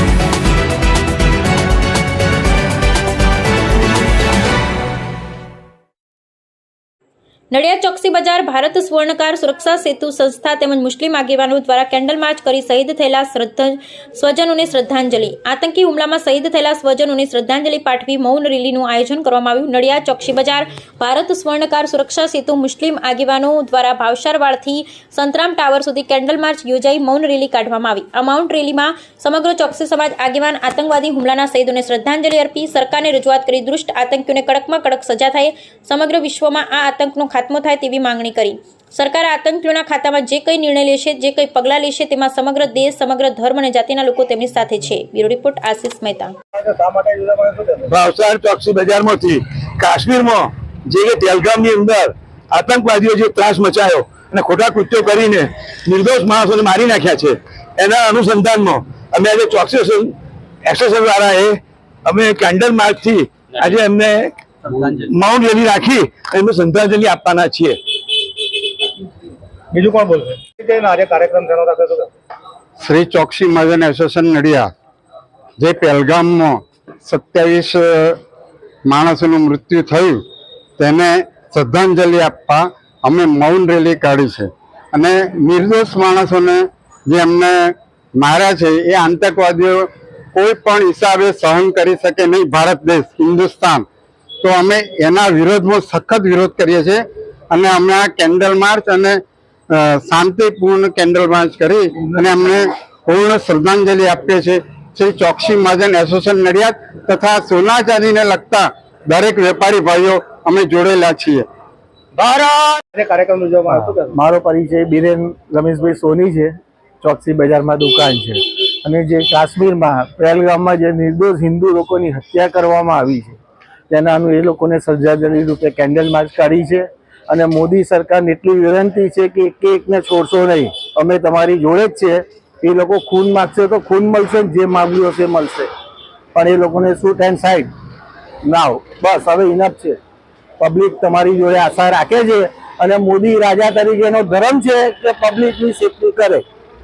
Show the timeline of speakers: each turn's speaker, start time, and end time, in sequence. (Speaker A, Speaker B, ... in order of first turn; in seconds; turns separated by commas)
Speaker A: 7.5-46.3, Speaker B: 46.5-47.9, Speaker C: 47.9-67.8, Speaker B: 69.7-72.1, Speaker D: 72.8-74.7, Speaker D: 75.6-78.2, Speaker D: 78.8-80.2, Speaker D: 80.8-93.8, Speaker D: 94.4-111.5, Speaker B: 112.2-114.1, Speaker E: 113.7-123.4, Speaker E: 123.9-135.7, Speaker E: 136.3-137.7, Speaker E: 138.4-140.0, Speaker E: 140.6-146.4